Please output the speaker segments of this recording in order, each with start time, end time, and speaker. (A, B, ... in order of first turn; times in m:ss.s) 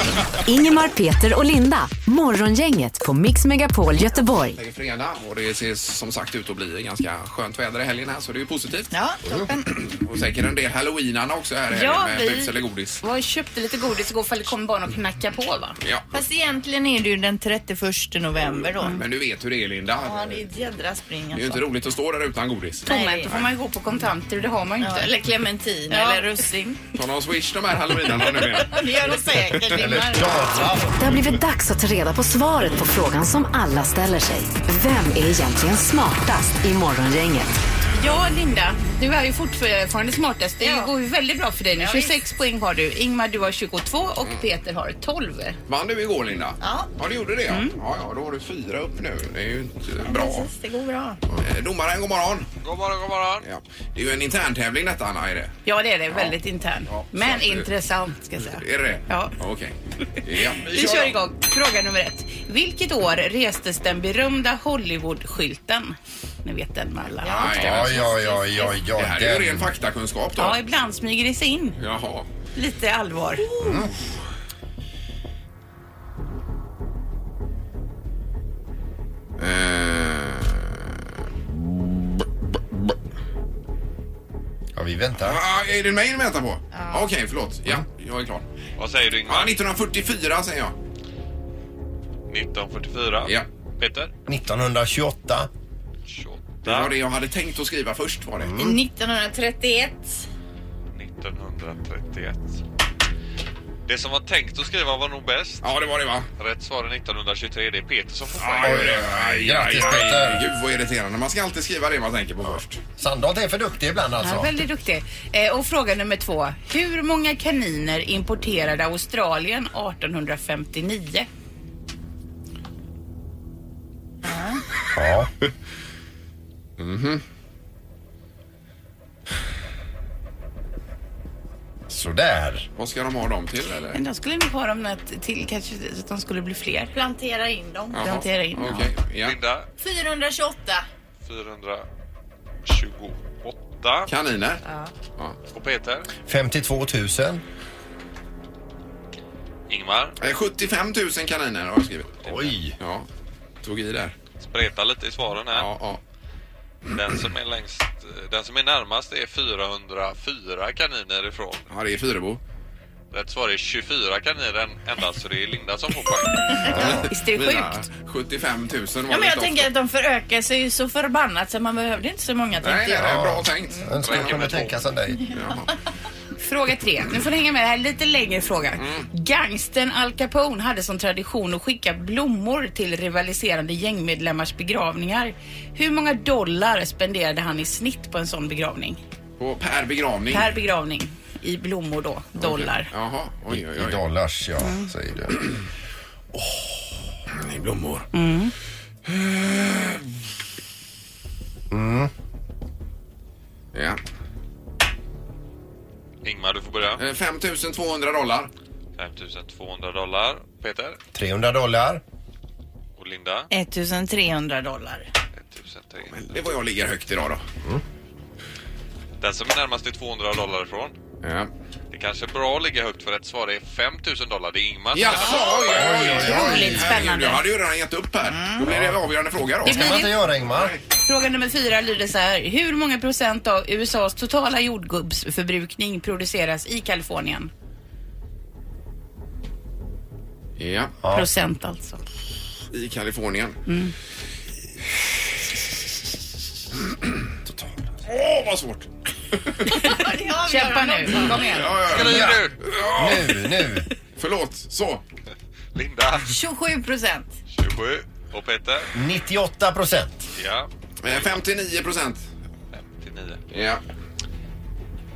0:00.4-0:04.6 A
0:04.3-0:08.9 B
0:08.9-0:09.7 C
0:09.7-0:13.0 B
0:11.7-0:15.8 D
0:15.8-0:16.1 B
0:16.1-0:19.0 C
0:18.8-0:20.5 B
0:20.0-0:21.6 C
0:21.3-0:23.4 B
0:22.9-0:25.1 D
0:22.9-0:23.3 C
0:24.8-0:26.8 C
0:25.9-0:26.2 D
0:26.9-0:29.6 B
0:28.1-0:30.4 C
0:29.7-0:31.0 E
0:31.0-0:37.6 A
0:37.9-0:45.6 D
0:40.6-0:40.9 C
0:41.8-0:42.2 C
0:45.7-0:50.5 B
0:46.6-0:46.9 C
0:47.5-0:47.7 D
0:50.0-0:51.2 C
0:51.4-0:52.5 B
0:52.6-0:53.4 F
0:53.4-0:55.5 B
0:55.6-0:59.3 D
0:56.9-0:57.7 B
0:58.4-1:01.2 B
1:00.7-1:07.7 D
1:07.2-1:08.7 C
1:07.2-1:08.0 B
1:07.6-1:09.7 E
1:08.9-1:10.6 B
1:10.4-1:11.8 D
1:11.8-1:12.3 B
1:12.6-1:13.4 D
1:13.4-1:13.7 C
1:13.6-1:13.9 E
1:19.4-1:20.8 B
1:24.7-1:25.4 E
1:25.2-1:28.4 B
1:26.7-1:27.1 C
1:28.8-1:29.6 F
1:29.3-1:30.8 B
1:32.3-1:34.1 F
1:34.3-1:35.5 E
1:36.1-1:37.0 F
1:36.6-1:38.6 B
1:38.4-1:38.8 E
1:38.6-1:40.2 C
1:40.9-1:42.6 F
1:43.9-1:45.6 F
1:45.6-1:46.3 B
1:46.4-1:49.0 F
1:48.4-1:52.8 B
1:48.6-1:50.5 E
1:53.0-1:54.6 E
1:54.2-2:01.3 D
2:04.2-2:04.6 C
2:04.9-2:05.3 E
2:06.8-2:07.2 B
2:11.9-2:12.7 E
2:12.8-2:14.0 B
2:13.9-2:16.9 D
2:16.9-2:18.2 C
2:17.9-2:19.4 B
2:18.1-2:18.9 D
2:19.2-2:19.7 F
2:19.8-2:20.8 C
2:21.2-2:21.8 F
2:22.6-2:24.1 F
2:24.1-2:24.6 B
2:24.6-2:24.9 C
2:25.5-2:26.1 F
2:26.2-2:27.4 E
2:29.7-2:30.2 F
2:30.2-2:32.2 B
2:32.2-2:32.5 F
2:32.2-2:32.8 E
2:32.8-2:33.1 B
2:33.6-2:34.1 B
2:34.4-2:35.7 F
2:35.5-2:36.0 B
2:36.9-2:41.6 F
2:41.7-2:42.4 B
2:43.1-2:46.8 F
2:46.7-2:47.1 E
2:46.8-2:49.7 B
2:47.0-2:47.9 D
2:49.1-2:53.2 C
2:52.6-2:54.7 B
2:52.9-2:55.2 E
2:54.0-2:54.4 F
2:55.3-2:55.7 B
2:56.4-3:09.0 D
2:58.8-2:59.1 B
3:09.4-3:10.5 B
3:10.3-3:12.9 D
3:12.4-3:14.0 B
3:13.5-3:15.4 E
3:17.3-3:18.1 B
3:18.1-3:18.5 D
3:19.1-3:20.0 B
3:21.7-3:22.1 E
3:23.7-3:24.0 B
3:26.2-3:27.0 F
3:27.0-3:28.5 B
3:29.0-3:31.0 F
3:31.1-3:32.0 E
3:33.0-3:33.5 F
3:33.5-3:35.1 C
3:35.4-3:36.1 F
3:36.1-3:37.4 B
3:39.2-3:40.9 F
3:41.2-3:41.5 B
3:41.9-3:45.5 F
3:44.9-3:50.8 B
3:45.7-3:47.0 E
3:46.1-3:47.4 D
3:48.2-3:48.7 C
3:48.6-3:49.0 E
3:49.6-3:50.8 E
3:49.7-3:50.1 D
3:51.1-3:57.5 D
4:00.6-4:01.0 B
4:01.0-4:01.3 E
4:01.1-4:02.0 D
4:02.7-4:03.6 B
4:03.7-4:03.9 D
4:07.4-4:07.9 E
4:08.1-4:08.9 B
4:09.7-4:11.7 C
4:10.4-4:11.7 D
4:11.3-4:13.3 B
4:11.9-4:12.6 F
4:11.9-4:13.9 E
4:14.2-4:15.0 B
4:15.7-4:16.4 F
4:16.2-4:17.3 C
4:17.5-4:18.9 F
4:18.9-4:20.3 E
4:20.4-4:21.3 F
4:21.0-4:22.2 B
4:22.7-4:23.4 F
4:23.5-4:23.8 B